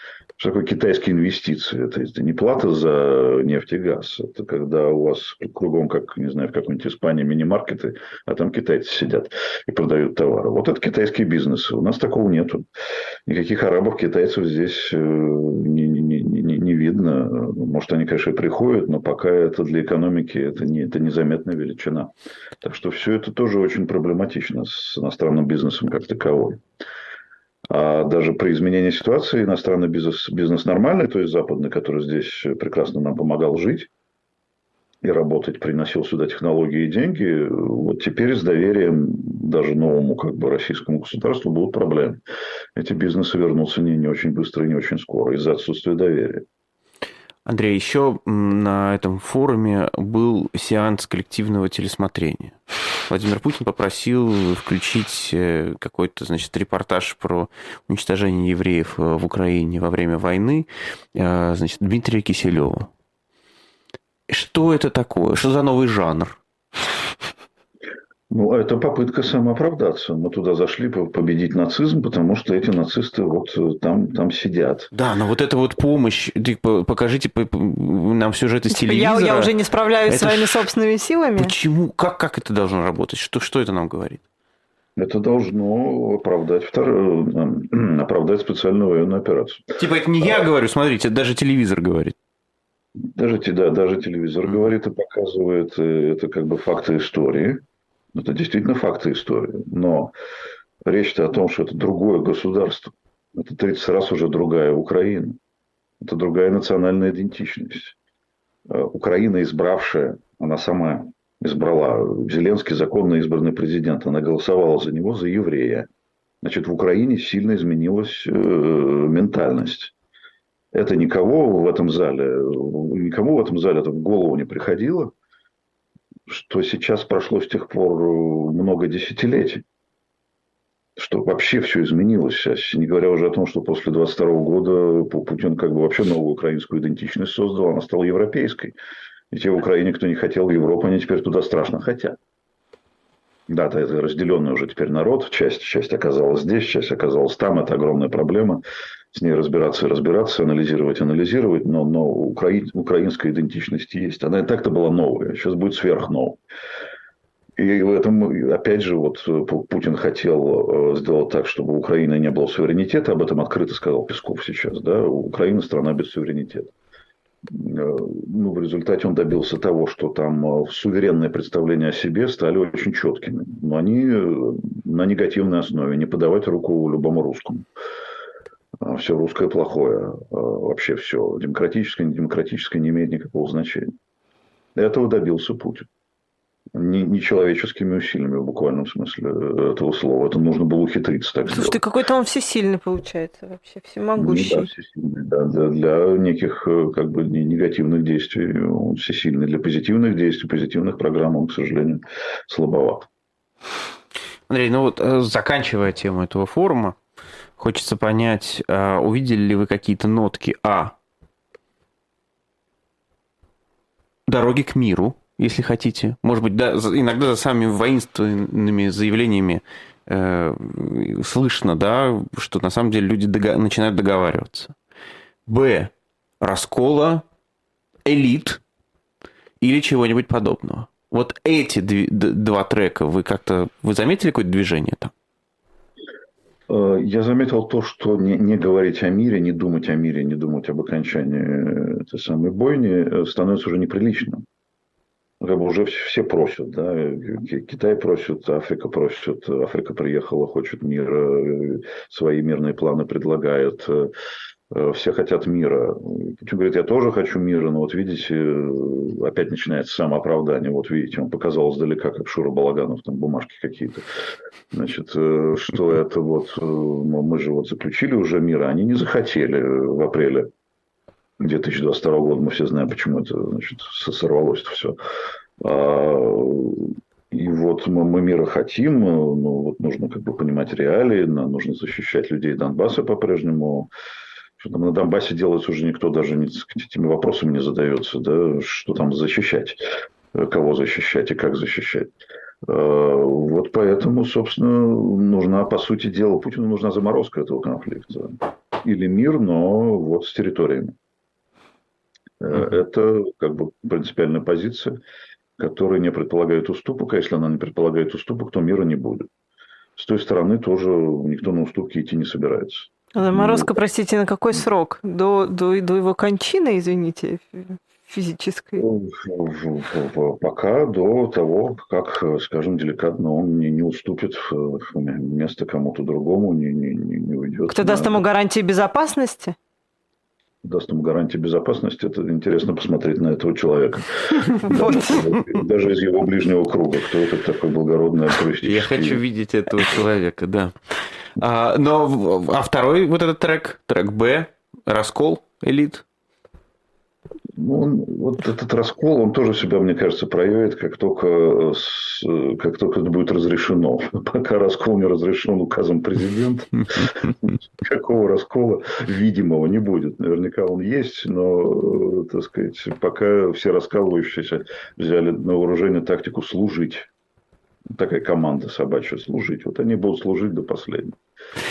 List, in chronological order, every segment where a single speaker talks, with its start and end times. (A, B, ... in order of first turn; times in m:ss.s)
0:00.4-0:12.6 A
0:13.2-0:26.6 A
0:27.7-0:33.9 A
0:35.0-0:42.2 A
0:42.8-0:46.4 A
0:47.4-0:52.6 B
0:53.1-1:02.9 B
1:04.3-1:06.4 B
1:08.3-1:14.9 A
1:14.9-1:19.5 B
1:18.7-1:21.5 C
1:20.1-1:20.6 B
1:21.4-1:24.2 B
1:25.0-1:30.4 A
1:29.8-1:32.1 B
1:33.1-1:37.6 A
1:38.1-1:40.1 A
1:40.8-1:45.4 A
1:46.0-1:48.0 A
1:48.7-1:55.9 A
1:56.4-1:59.9 A
2:00.7-2:05.1 A
2:06.3-2:09.6 A
2:11.0-2:18.8 A
2:19.3-2:22.2 A
2:23.5-2:28.6 A
2:29.1-2:36.4 A
2:37.6-2:46.7 A
2:47.4-2:57.7 A
2:58.8-3:03.9 A
3:04.8-3:05.9 A
3:06.7-3:11.8 A
3:11.5-3:14.7 C
3:14.2-3:23.1 A
3:24.5-3:27.0 B
3:27.6-3:30.9 B
3:34.3-3:44.7 B
3:45.5-3:47.2 B
3:48.0-3:48.6 B
3:49.6-3:55.1 B
3:56.7-4:04.4 A
4:05.4-4:14.1 A
4:14.7-4:24.0 A
4:24.7-4:30.5 A
4:31.4-4:35.0 A
4:35.6-4:43.9 A
4:44.6-4:49.8 A
4:50.3-4:52.1 A
4:52.6-5:01.0 A
5:02.4-5:05.0 A
5:05.6-5:09.3 A
5:10.0-5:13.7 A
5:13.1-5:18.8 C
5:18.8-5:28.2 A
5:27.7-5:29.6 C
5:30.6-5:39.2 A
5:34.5-5:35.3 C
5:38.6-5:40.7 B
5:41.4-5:46.0 B
5:47.6-6:07.1 A
6:07.9-6:11.2 A